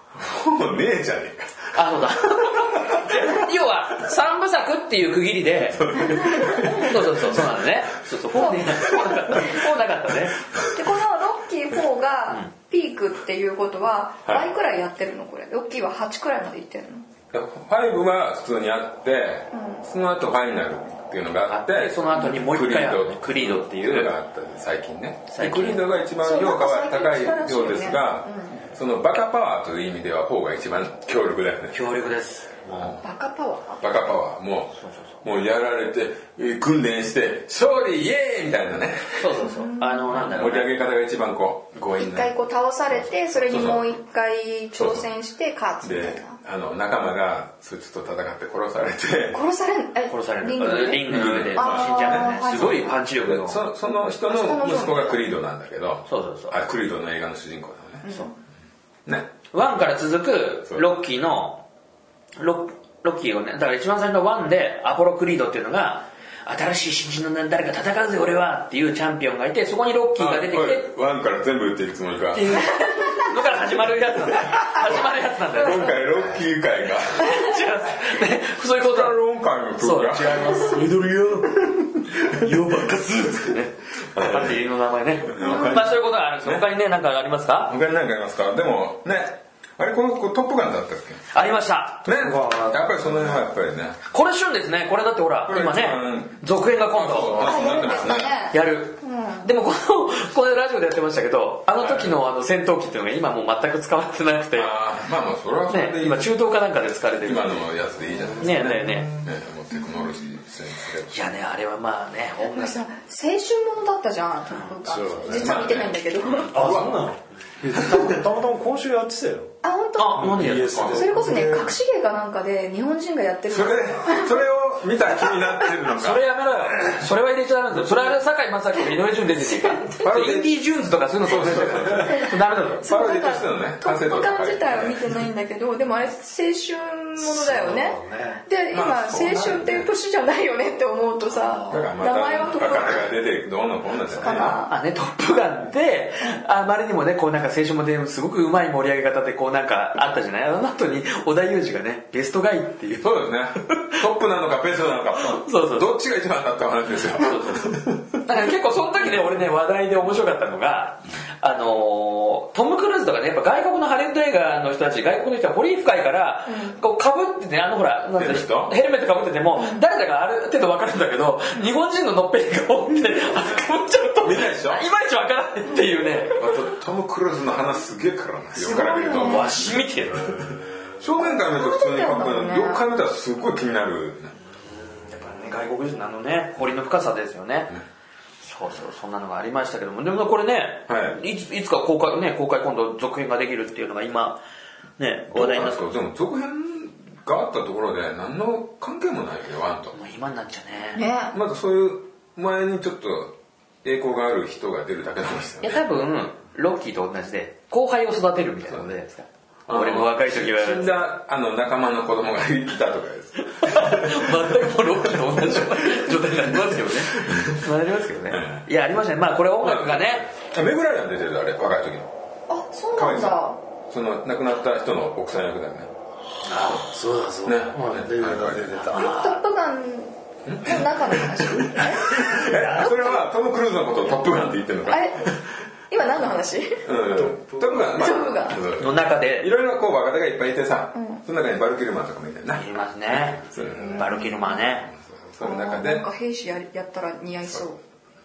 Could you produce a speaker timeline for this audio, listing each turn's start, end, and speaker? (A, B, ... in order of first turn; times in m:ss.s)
0:00.1-0:03.4 A
0:01.7-0:10.5 B
0:05.8-0:07.3 A
0:06.1-0:06.8 C
0:08.3-0:09.6 C
0:10.6-0:17.1 C
0:17.3-0:31.8 A
0:19.5-0:19.8 C
0:21.5-0:24.1 B
0:25.3-0:25.8 B
0:26.2-0:28.6 C
0:31.7-0:33.0 B
0:33.0-0:33.8 C
0:33.8-0:39.4 A
0:34.8-0:35.2 B
0:39.2-0:40.7 B
0:39.4-0:40.1 C
0:40.1-0:42.4 A
0:42.0-0:46.4 C
0:42.9-0:43.9 A
0:44.7-0:45.1 A
0:45.8-0:49.4 A
0:49.3-0:52.9 C
0:50.1-0:53.6 B
0:51.0-0:58.0 A
0:54.3-0:55.2 C
0:56.0-0:56.6 B
0:58.0-0:58.3 C
0:59.0-0:59.3 A
0:59.5-1:01.6 B
1:02.4-1:10.9 B
1:10.2-1:12.7 A
1:12.3-1:16.2 B
1:14.6-1:17.3 A
1:17.1-1:19.1 B
1:18.8-1:20.6 A
1:19.8-1:27.7 B
1:24.1-1:24.6 A
1:25.2-1:26.6 A
1:25.4-1:25.7 C
1:27.7-1:31.2 A
1:31.3-1:32.0 B
1:32.0-1:34.0 A
1:32.1-1:33.1 D
1:34.1-1:44.7 B
1:35.5-1:38.3 A
1:37.4-1:39.5 C
1:41.8-1:42.2 A
1:44.5-1:46.4 A
1:45.7-1:47.7 B
1:47.2-1:51.3 A
1:48.1-1:49.3 D
1:48.4-1:49.1 B
1:49.7-1:50.3 C
1:51.1-1:52.8 B
1:52.5-1:56.6 C
1:54.8-1:55.6 D
1:55.3-1:57.0 A
1:56.5-1:59.5 D
1:57.7-1:58.2 A
1:59.6-2:04.3 C
2:00.0-2:00.9 B
2:00.1-2:01.7 D
2:00.5-2:01.1 A
2:03.5-2:06.2 A
2:05.9-2:12.9 B
2:09.6-2:09.9 C
2:10.0-2:10.5 A
2:11.2-2:12.3 A
2:12.8-2:15.0 A
2:12.8-2:23.1 C
2:17.2-2:18.4 D
2:18.7-2:19.9 A
2:21.3-2:21.9 B
2:21.7-2:24.6 A
2:24.1-2:24.7 C
2:24.6-2:34.0 B
2:33.0-2:38.2 A
2:35.2-2:35.9 B
2:37.0-2:56.5 B
2:46.5-2:46.8 C
2:48.2-2:48.7 A
2:54.2-2:54.8 A
2:56.3-2:59.6 A
2:58.6-2:59.6 C
2:59.1-3:00.6 B
3:01.0-3:04.3 A
3:01.2-3:02.8 C
3:04.6-3:07.7 B
3:08.4-3:14.4 B
3:10.9-3:11.2 A
3:15.0-3:15.8 B
3:15.3-3:19.9 A
3:19.9-3:21.0 B
3:20.9-3:21.4 C
3:21.3-3:25.8 A
3:25.6-3:31.0 B
3:28.6-3:28.9 A
3:29.7-3:36.1 A
3:33.5-3:40.3 B
3:36.7-3:37.7 A
3:38.3-3:38.7 A
3:39.6-3:42.1 A
3:42.5-3:43.6 C
3:42.9-3:45.9 A
3:46.4-3:49.1 D
3:46.5-3:46.8 B
3:47.4-3:48.9 A
3:48.9-3:49.4 B
3:48.9-3:53.2 C
3:50.4-3:55.4 A
3:52.4-3:52.9 D
3:54.9-3:56.9 C
3:56.8-4:02.7 A
3:57.1-3:58.0 D
3:57.9-3:58.6 C
3:58.8-3:59.5 B
4:00.9-4:01.2 C
4:02.5-4:04.9 B
4:03.2-4:04.0 A
4:03.8-4:04.6 C
4:04.9-4:06.1 A
4:05.4-4:07.8 C